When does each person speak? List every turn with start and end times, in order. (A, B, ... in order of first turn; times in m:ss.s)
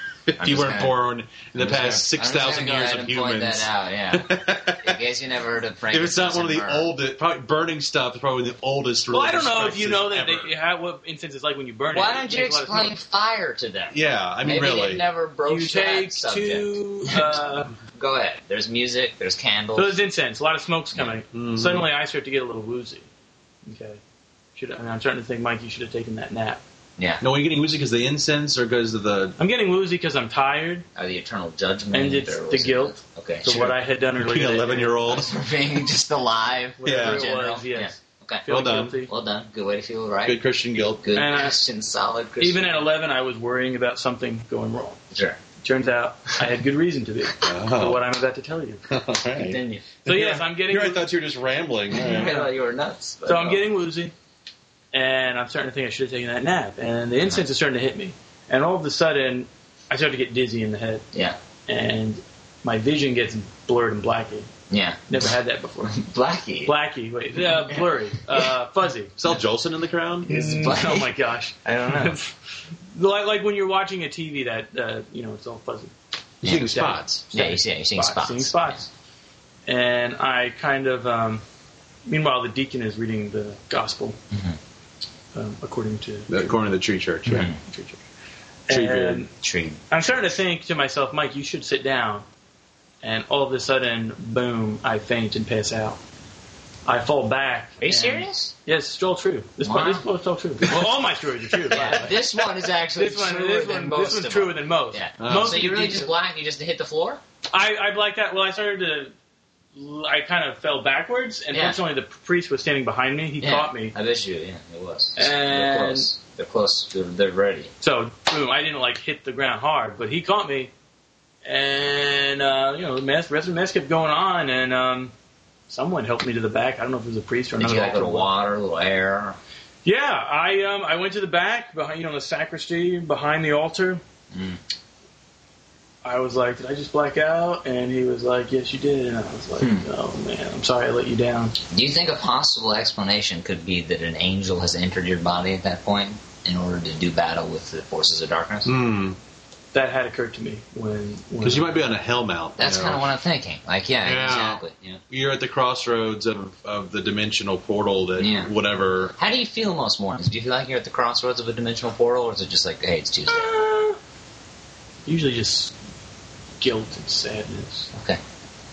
0:00.3-0:05.0 A
0:00.4-0:01.0 B
0:01.5-0:06.9 B
0:05.9-0:10.5 A
0:09.1-0:13.0 C
0:11.9-0:17.4 B
0:13.9-0:15.0 A
0:15.4-0:17.7 C
0:17.9-0:20.0 B
0:19.8-0:23.0 C
0:21.3-0:21.8 A
0:23.6-0:24.0 C
0:24.6-0:26.6 C
0:27.0-0:27.2 B
0:27.2-0:29.4 A
0:29.4-0:30.8 C
0:31.0-0:33.7 B
0:31.9-0:35.0 C
0:34.2-0:35.3 A
0:35.0-0:38.5 B
0:36.8-0:39.1 C
0:36.8-0:37.2 A
0:38.5-0:39.0 A
0:39.0-0:40.4 B
0:40.2-0:41.1 A
0:41.0-0:42.8 B
0:41.1-0:41.6 C
0:42.4-0:45.0 C
0:45.1-0:45.4 B
0:45.6-0:48.8 C
0:47.4-0:48.0 A
0:48.9-0:52.3 A
0:49.3-0:49.8 B
0:50.0-0:51.0 C
0:51.9-0:53.6 B
0:52.1-0:52.5 C
0:53.2-0:54.1 C
0:54.9-1:01.0 C
1:01.7-1:04.5 C
1:04.7-1:05.3 B
1:05.1-1:06.0 C
1:05.8-1:06.7 B
1:06.6-1:09.2 C
1:09.2-1:10.3 A
1:10.2-1:12.2 B
1:10.3-1:15.9 C
1:16.4-1:16.7 B
1:16.4-1:17.2 A
1:16.5-1:18.8 C
1:17.3-1:18.8 B
1:19.6-1:21.4 C
1:22.0-1:24.2 C
1:24.3-1:24.6 B
1:25.3-1:26.6 C
1:26.3-1:27.5 A
1:27.2-1:27.6 B
1:27.4-1:28.0 C
1:28.7-1:29.3 C
1:28.7-1:29.2 A
1:29.4-1:30.4 B
1:29.9-1:32.2 C
1:33.0-1:36.0 C
1:36.8-1:46.1 C
1:37.8-1:38.5 B
1:39.6-1:40.0 B
1:41.7-1:47.2 B
1:45.2-1:45.6 A
1:47.5-1:49.1 C
1:49.7-1:53.9 C
1:51.5-1:51.8 B
1:53.4-1:57.7 B
1:55.2-1:56.1 C
1:57.8-2:00.7 C
2:01.4-2:05.1 C
2:05.7-2:08.3 C
2:07.6-2:09.4 B
2:09.8-2:14.0 C
2:14.3-2:14.6 B
2:16.0-2:21.5 C
2:19.6-2:19.9 B
2:21.7-2:28.7 B
2:28.6-2:29.2 A
2:29.7-2:31.9 C
2:31.4-2:33.0 A
2:32.6-2:35.0 B
2:34.0-2:39.1 A
2:38.2-2:38.5 B
2:39.2-2:43.6 B
2:43.4-2:44.0 C
2:45.0-2:45.7 C
2:46.6-2:47.9 C
2:47.9-2:48.2 B